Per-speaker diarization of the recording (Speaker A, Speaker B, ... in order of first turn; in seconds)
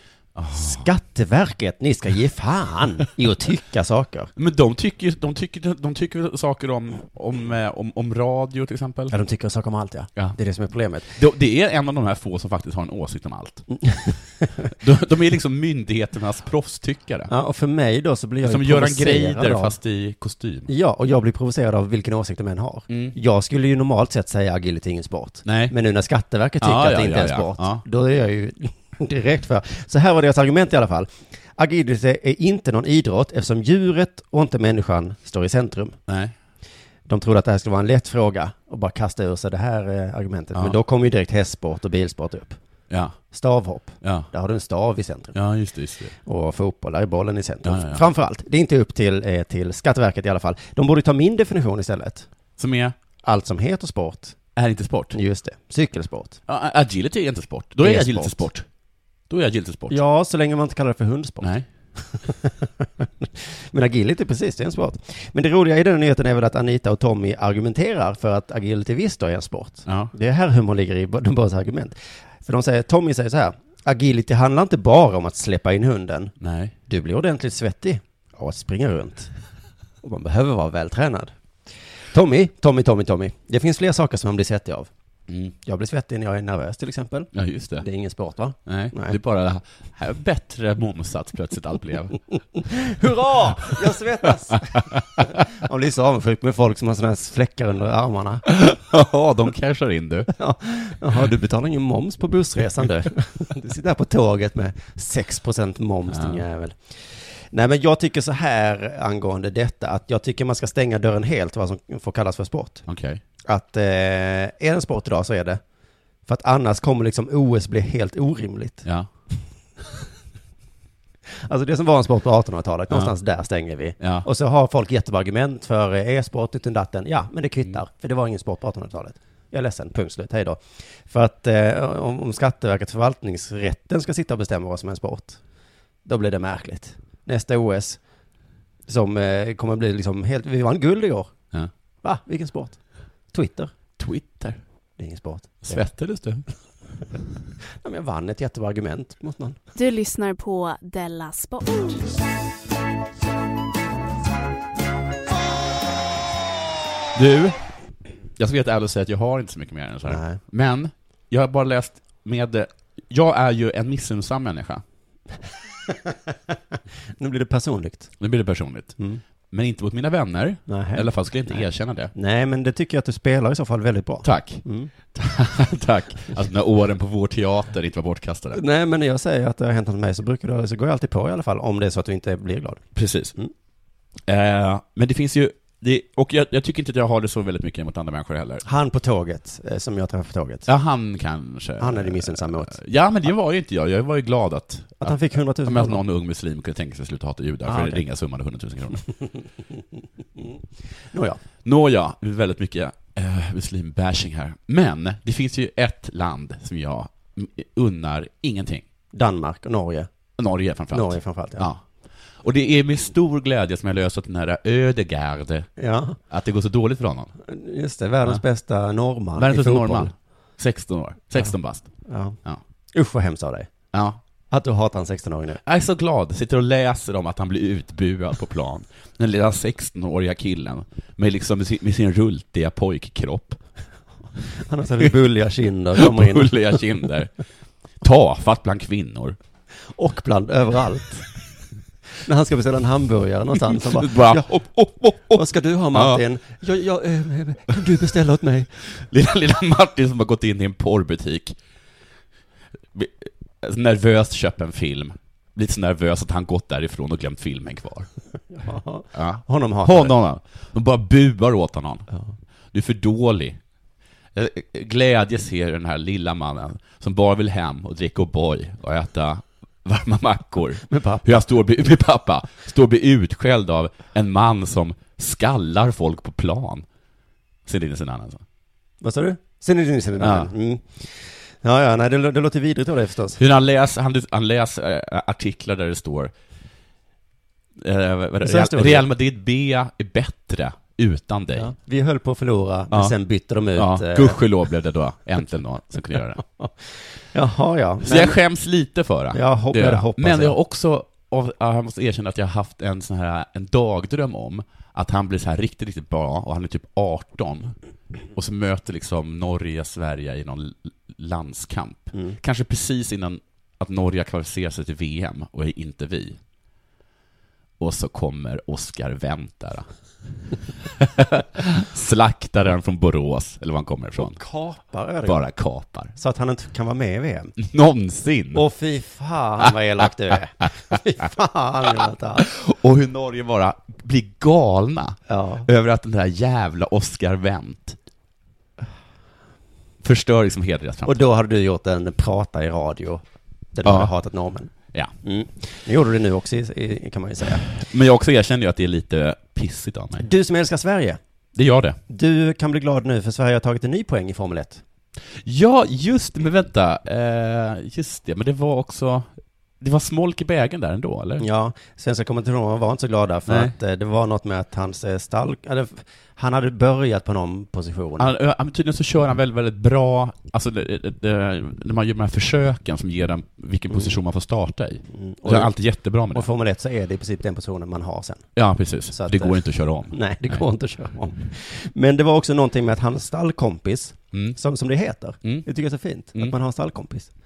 Speaker A: 0.3-0.9, 4.4-9.1, 11.1-13.7, 14.8-17.3, 18.4-20.7, 22.9-23.2, 25.4-25.7, 26.6-27.8, 36.1-36.4, 42.9-43.2, 44.0-44.3, 45.3-46.1, 47.6-48.0, 52.6-53.0, 54.6-55.2, 56.5-58.6, 59.3-60.0, 61.4-61.7, 69.9-70.1, 76.4-76.8, 85.3-85.6, 87.3-87.8, 88.7-92.2, 95.0-95.3, 98.5-100.3, 106.1-106.4, 112.9-113.2, 124.0-124.3, 144.0-144.6, 145.7-146.4, 157.2-157.6, 158.4-164.8, 168.2-169.0, 169.5-172.1, 174.2-178.6, 182.9-183.3, 184.3-188.6, 190.7-199.0, 201.6-208.8, 210.4-211.8, 212.4-215.7, 216.3-217.3, 219.4-221.9, 223.9-224.2, 225.6-233.6, 236.0-237.3, 238.0-239.4, 243.7-246.2, 248.9-251.6, 252.9-258.1, 259.1-262.1, 262.7-263.6, 264.4-276.9, 277.7-278.4, 280.2-280.5, 283.4-286.3, 287.8-291.7, 293.8-296.4, 298.0-307.7, 308.4-316.4, 317.8-319.9, 321.0-324.4, 325.2-326.1, 327.6-328.6, 329.6-330.1, 332.4-338.0, 340.0-341.2, 343.9-344.1, 347.7-350.3, 351.6-352.0, 355.4-359.3, 359.8-361.5, 363.5-363.8, 368.2-376.5, 378.6-380.6
Speaker B: 0.6-4.3, 9.1-11.1, 13.7-14.7, 17.3-19.8, 20.7-36.0, 37.1-42.6, 43.3-45.4, 46.2-52.3, 53.2-54.4, 55.1-56.4, 57.8-58.5, 59.9-61.5, 62.2-76.3, 76.9-79.3, 80.0-81.3, 82.1-84.9, 85.6-89.2, 92.7-98.5, 100.4-112.9, 113.5-115.6, 116.3-118.9, 121.5-135.4, 136.1-138.0, 138.9-141.3, 142.0-142.8, 143.3-143.7, 145.0-145.9, 147.8-149.6, 160.1-160.4, 167.2-168.1, 170.7-174.9, 178.5-182.8, 188.6-190.7, 191.8-192.8, 195.0-196.0, 197.7-198.0, 201.1-201.4, 209.1-210.1, 210.9-211.7, 215.8-216.2, 217.4-220.1, 222.1-222.4, 222.9-223.7, 224.5-225.6, 234.7-236.8, 239.9-241.3, 242.2-244.5, 245.3-248.7, 258.5-260.2, 270.9-271.5, 279.0-283.4, 288.4-289.1, 291.6-294.4, 297.3-298.4, 299.3-300.6, 324.2-325.5, 326.1-327.5, 328.5-332.5, 335.3-335.7, 341.1-344.7, 345.2-347.7, 350.2-351.2, 352.1-354.8, 361.4-368.3, 375.1-375.7, 376.3-378.5, 379.1-387.3
Speaker C: 149.8-152.0